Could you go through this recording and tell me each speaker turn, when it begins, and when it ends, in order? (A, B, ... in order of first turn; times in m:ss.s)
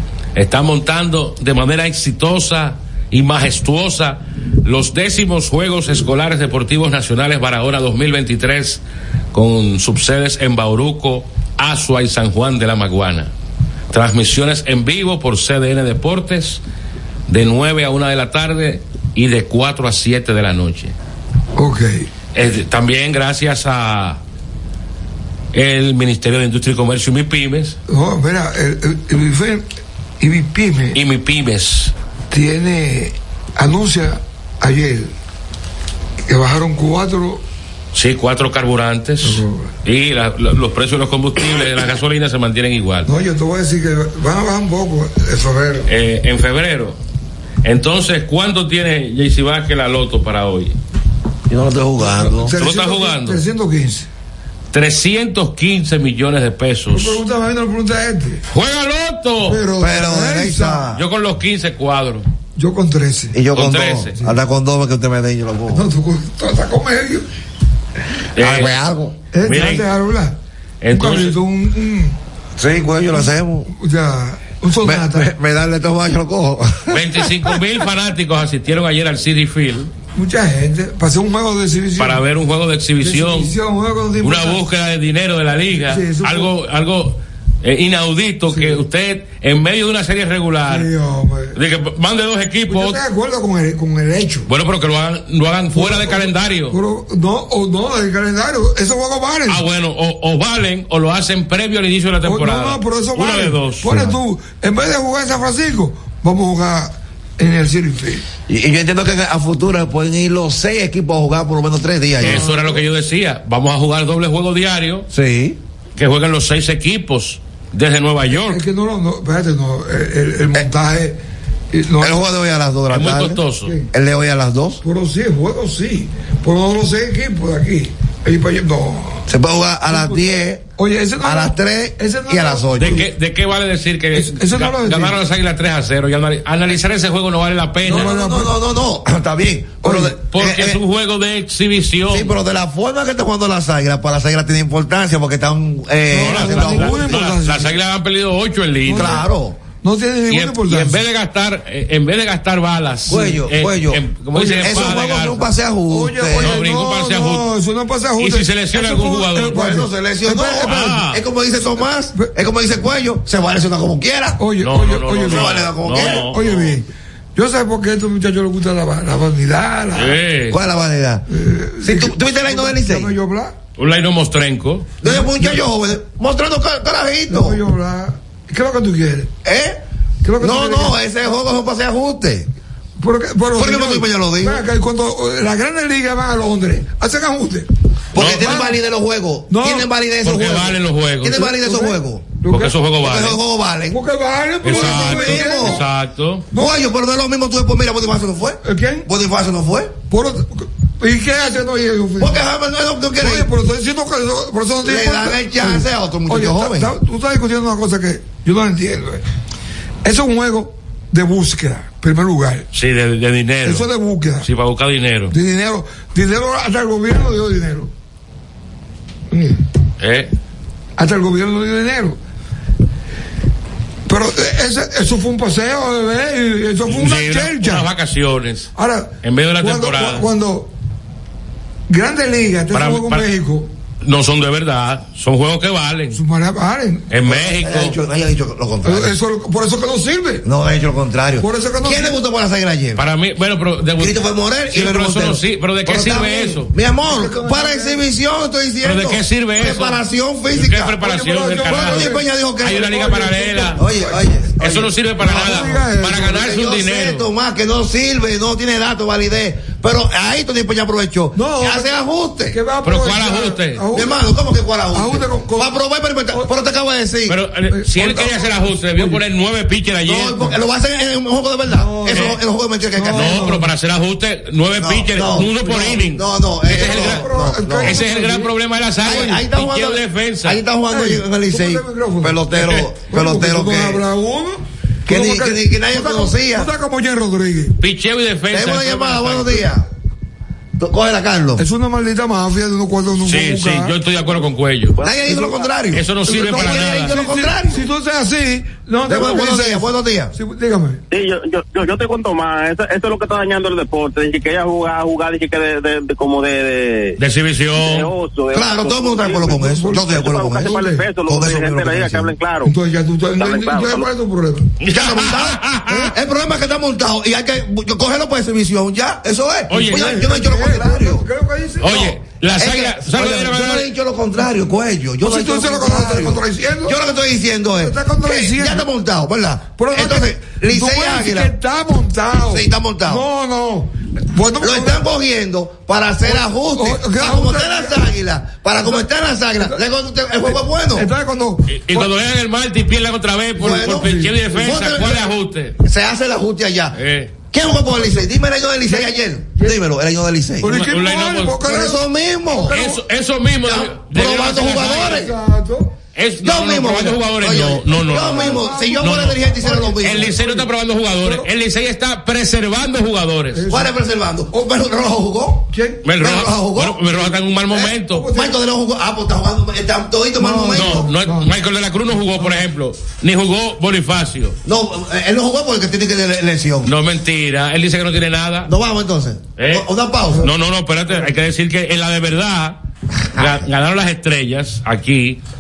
0:00.4-0:08.8 A
0:09.3-0:13.3 A
0:13.9-0:16.6 A
0:17.3-0:20.9 A
0:21.6-0:22.1 B
0:22.3-0:24.2 A
0:25.5-0:27.8 A
0:27.9-0:29.6 B
0:30.2-0:31.0 B
0:30.9-0:31.9 A
0:32.3-0:35.1 B
0:36.3-0:37.4 B
0:37.9-0:43.1 A
0:39.2-0:39.7 B
0:43.1-0:45.9 B
0:45.9-0:47.0 A
0:47.6-0:50.8 A
0:51.5-0:52.6 C
0:52.0-0:54.1 B
0:52.6-0:53.4 A
0:54.7-0:57.2 A
0:56.9-0:58.4 B
0:58.5-0:59.6 A
0:59.4-1:00.8 B
0:59.8-1:01.0 C
1:00.9-1:02.3 A
1:02.6-1:03.4 B
1:03.3-1:05.9 C
1:03.5-1:04.1 A
1:05.7-1:07.3 B
1:08.4-1:08.8 A
1:08.4-1:09.1 C
1:09.3-1:10.4 B
1:09.4-1:09.9 A
1:10.8-1:11.4 A
1:10.9-1:12.2 B
1:12.6-1:13.7 C
1:13.7-1:15.3 B
1:14.8-1:17.2 C
1:16.9-1:19.9 A
1:20.1-1:22.2 B
1:22.0-1:23.5 A
1:23.0-1:24.6 B
1:24.2-1:30.9 A
1:25.8-1:26.5 B
1:28.5-1:28.8 B
1:30.7-1:31.6 B
1:31.6-1:33.0 A
1:32.7-1:34.5 B
1:34.5-1:36.8 A
1:35.7-1:39.6 B
1:39.5-1:44.2 A
1:42.2-1:48.2 B
1:48.5-1:52.4 C
1:52.2-1:55.1 A
1:52.2-1:52.8 B
1:55.1-1:55.6 C
1:56.0-1:58.6 A
1:58.3-2:02.2 B
2:02.0-2:03.4 C
2:02.9-2:03.8 A
2:03.6-2:03.9 B
2:03.9-2:04.8 C
2:04.8-2:09.3 B
2:09.3-2:10.7 C
2:09.9-2:13.0 B
2:11.2-2:13.0 C
2:12.8-2:18.1 A
2:14.1-2:15.2 B
2:17.8-2:18.5 B
2:17.9-2:20.8 C
2:19.8-2:20.2 B
2:20.3-2:22.3 A
2:22.1-2:27.2 C
2:26.1-2:27.8 B
2:26.1-2:29.2 A
2:28.9-2:29.3 B
2:28.9-2:29.6 C
2:29.8-2:31.0 B
2:30.3-2:35.4 A
2:33.1-2:36.6 C
2:34.4-2:35.0 B
2:35.9-2:41.0 B
2:36.4-2:37.5 A
2:38.2-2:39.6 A
2:39.5-2:44.4 C
2:40.6-2:41.2 A
2:41.6-2:42.3 B
2:44.4-2:50.2 B
2:44.6-2:46.8 A
2:45.2-2:46.3 C
2:49.9-2:50.6 A
2:50.5-2:51.3 C
2:51.3-2:53.6 B
2:51.8-2:53.1 C
2:53.8-2:55.0 A
2:55.0-2:57.6 C
2:55.0-2:55.6 B
2:57.3-2:59.3 B
2:59.4-2:59.8 C
3:00.2-3:01.0 B
3:00.4-3:02.5 C
3:03.0-3:08.8 B
3:03.5-3:04.6 C
3:08.1-3:12.3 C
3:08.2-3:08.5 A
3:09.5-3:09.9 B
3:10.2-3:11.5 A
3:11.4-3:12.8 B
3:12.5-3:13.4 A
3:13.0-3:14.0 C
3:13.9-3:15.8 B
3:14.6-3:16.4 A
3:14.6-3:15.8 C
3:16.5-3:20.0 C
3:18.6-3:19.1 B
3:20.1-3:22.4 B
3:22.2-3:23.5 C
3:23.2-3:29.2 B
3:24.8-3:26.9 C
3:30.0-3:32.7 B
3:32.7-3:33.9 A
3:33.6-3:34.5 B
3:34.4-3:35.4 A
3:35.3-3:37.9 B
3:39.3-3:39.6 B
3:40.0-3:40.3 A
3:41.0-3:42.2 B
3:44.1-3:47.9 B
3:46.9-3:48.7 A
3:48.8-3:50.7 B
3:49.2-3:50.3 A
3:51.9-3:53.7 B
3:52.7-3:53.3 A
3:54.0-3:56.2 A
3:56.1-3:57.1 B
3:57.1-3:58.0 A
3:57.2-3:59.1 C
3:58.8-4:00.5 B
4:00.4-4:03.0 C
4:01.4-4:02.2 B
4:03.0-4:04.2 A
4:04.0-4:11.0 C
4:04.7-4:06.7 A
4:07.0-4:08.0 B
4:08.8-4:13.8 A
4:11.0-4:12.2 B
4:11.6-4:13.0 C
4:12.8-4:14.2 B
4:13.8-4:14.9 C
4:14.6-4:17.3 A
4:15.2-4:16.4 B
4:16.2-4:22.6 C
4:21.4-4:21.9 B
4:22.5-4:24.2 B
4:22.8-4:23.8 A
4:23.9-4:27.4 C
4:24.9-4:25.7 B
4:27.3-4:30.5 A
4:27.7-4:29.2 B
4:30.1-4:33.5 C
4:31.7-4:32.4 B
4:32.1-4:32.4 A
4:33.0-4:33.7 B
4:33.1-4:37.3 A
4:34.8-4:38.0 C
4:36.7-4:38.5 B
4:37.8-4:40.6 A
4:39.0-4:44.0 C
4:40.9-4:47.8 B
4:45.1-4:46.7 C
4:47.8-4:49.7 A
4:48.5-4:49.9 C
4:50.8-4:51.7 C
4:51.6-4:54.0 B
4:53.2-4:55.0 A
4:55.0-4:57.8 C
4:55.3-4:55.6 B
4:55.9-4:57.2 A
4:56.3-5:01.0 B
4:59.0-5:00.4 C
5:01.1-5:07.2 D
5:07.2-5:08.1 A
5:07.8-5:12.7 D
5:08.5-5:12.3 C
5:09.3-5:11.1 B
5:12.6-5:14.7 B
5:13.3-5:14.1 D
5:14.8-5:16.1 A
5:14.9-5:21.3 C
5:19.7-5:20.2 A
5:19.8-5:22.1 B
5:21.8-5:23.9 A
5:22.6-5:31.6 C
5:25.2-5:27.0 B
5:27.8-5:28.9 B
5:29.8-5:35.0 B
5:32.4-5:33.3 C
5:34.6-5:41.1 C
5:36.2-5:38.0 B
5:40.4-5:42.1 B
5:41.7-5:45.8 A
5:43.6-5:47.0 C
5:43.7-5:44.5 B
5:47.0-5:47.3 A
5:47.5-5:50.8 C
5:48.9-5:49.8 B
5:50.6-5:53.0 B
5:50.6-5:51.6 A
5:51.6-5:52.8 C
5:52.7-5:55.3 A
5:53.6-5:55.4 C
5:54.8-5:56.0 B
5:56.1-5:59.4 A
5:56.4-6:00.4 C
5:58.0-6:01.5 B
6:00.0-6:03.7 A
6:03.5-6:03.9 B
6:03.7-6:11.1 C
6:05.7-6:06.0 B
6:06.0-6:08.3 A
6:08.1-6:08.6 B
6:10.4-6:11.5 B
6:10.7-6:14.6 A
6:14.6-6:16.9 C
6:16.8-6:18.7 A
6:18.6-6:20.5 C
6:19.6-6:19.9 A
6:20.4-6:22.8 A
6:23.3-6:25.4 A